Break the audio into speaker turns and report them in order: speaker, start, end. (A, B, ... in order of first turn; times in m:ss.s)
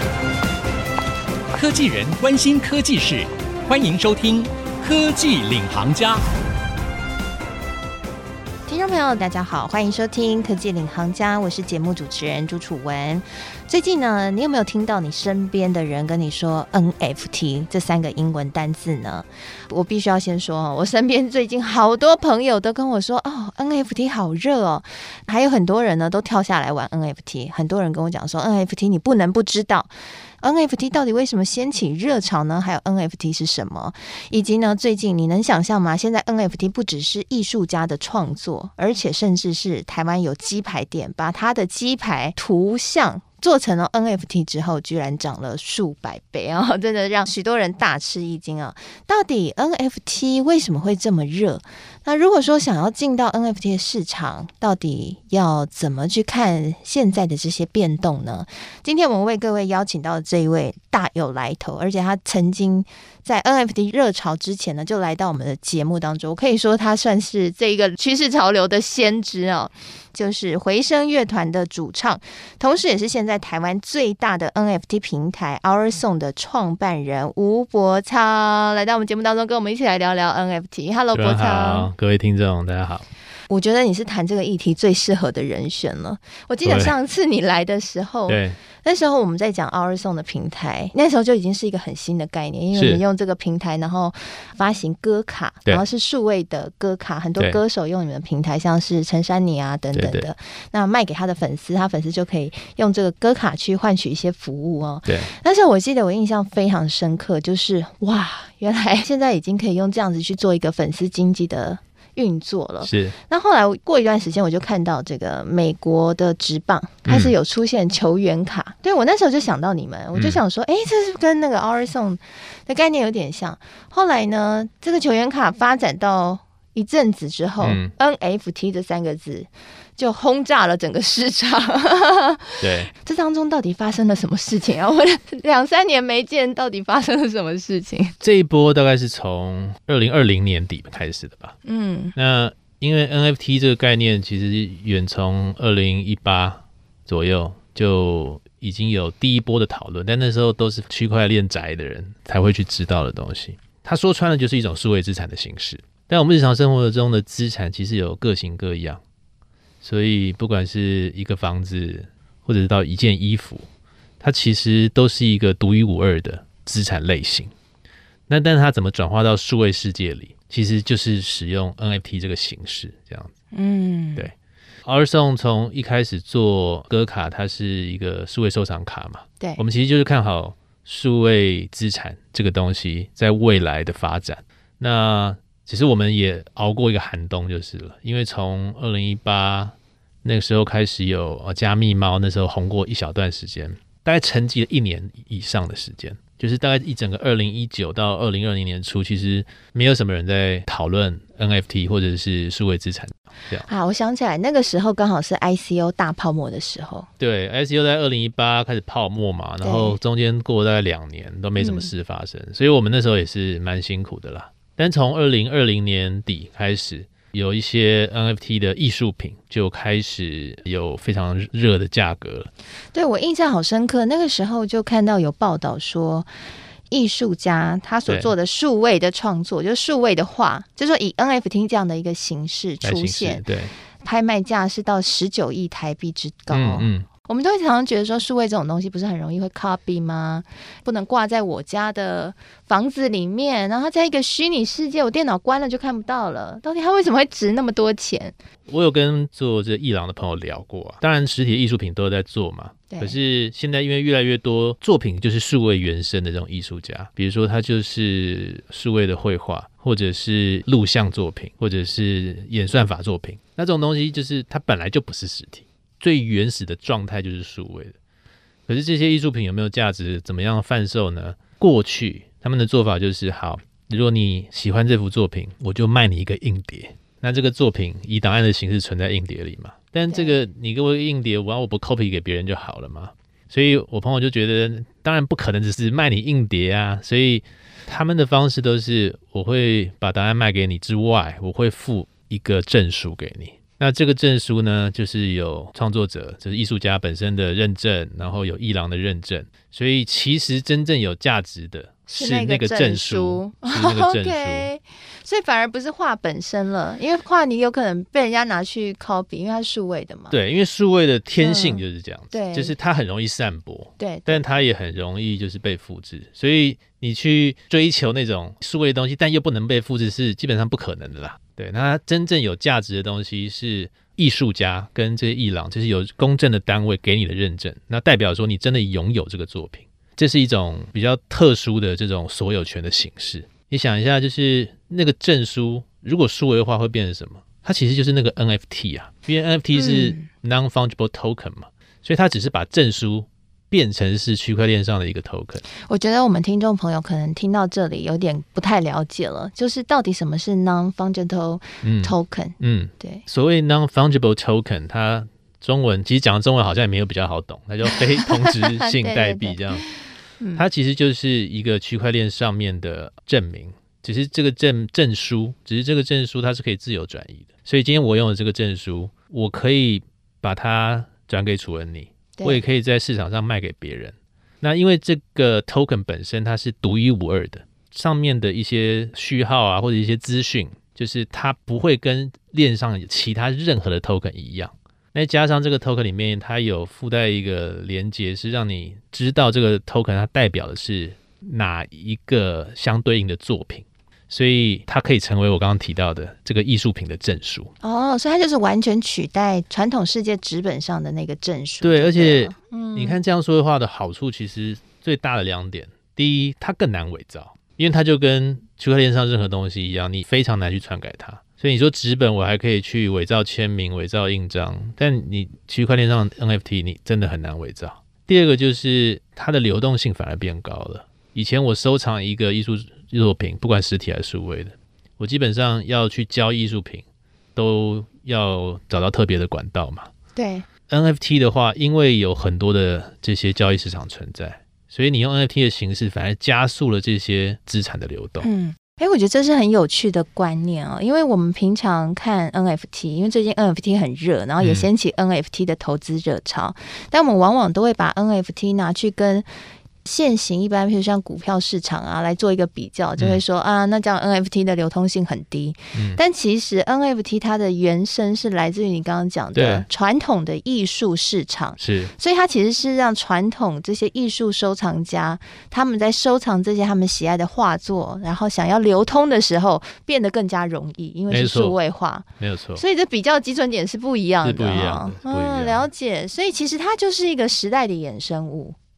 0:01.5-0:06.2 A
0:08.7-0:29.9 B
0:30.4-1:21.9 B
1:21.1-1:23.1 C
1:23.5-2:18.2 B
1:26.6-1:26.9 C
1:28.3-1:28.6 C
1:32.7-1:33.0 C
1:39.9-1:40.3 C
1:52.8-1:53.2 C
1:57.0-1:57.4 C
2:00.2-2:00.4 C
2:07.6-2:07.9 C
2:12.6-2:12.9 C
2:18.2-2:21.6 C
2:21.6-2:22.2 B
2:22.2-2:39.0 C
2:39.8-2:43.7 C
2:44.2-2:47.5 C
2:48.3-2:53.3 C
2:53.5-2:54.3 B
2:54.8-3:23.7 C
3:23.7-3:27.1 B
3:27.2-3:42.5 C
3:29.6-3:30.0 B
3:31.6-3:31.9 B
3:42.9-3:46.3 B
3:46.9-3:53.4 B
3:48.1-3:48.3 C
3:52.8-3:53.7 C
3:54.0-4:08.4 B
3:56.5-3:57.1 C
4:08.7-4:28.0 C
4:12.9-4:13.2 B
4:28.7-5:04.7 C
4:40.1-4:40.4 B
5:02.1-5:10.4 B
5:10.3-5:45.6 C
5:11.4-5:12.8 B
5:14.0-5:14.5 B
5:39.7-5:40.3 B
5:45.7-5:53.2 B
5:51.8-5:59.9 C
5:58.4-6:00.6 B
6:00.6-6:37.7 C
6:12.4-6:12.6 B
6:37.8-6:43.2 B
6:41.8-7:07.0 C
7:07.6-7:10.1 C
7:10.4-7:10.7 B
7:10.9-7:18.5 C
7:18.4-7:29.5 B
7:24.6-7:24.9 C
7:30.0-7:58.8 B
7:33.2-7:33.4 C
7:35.9-7:36.2 C
7:39.6-7:39.8 C
7:41.8-7:42.1 C
7:51.3-7:51.8 C
7:52.4-7:52.8 C
7:54.4-7:55.9 C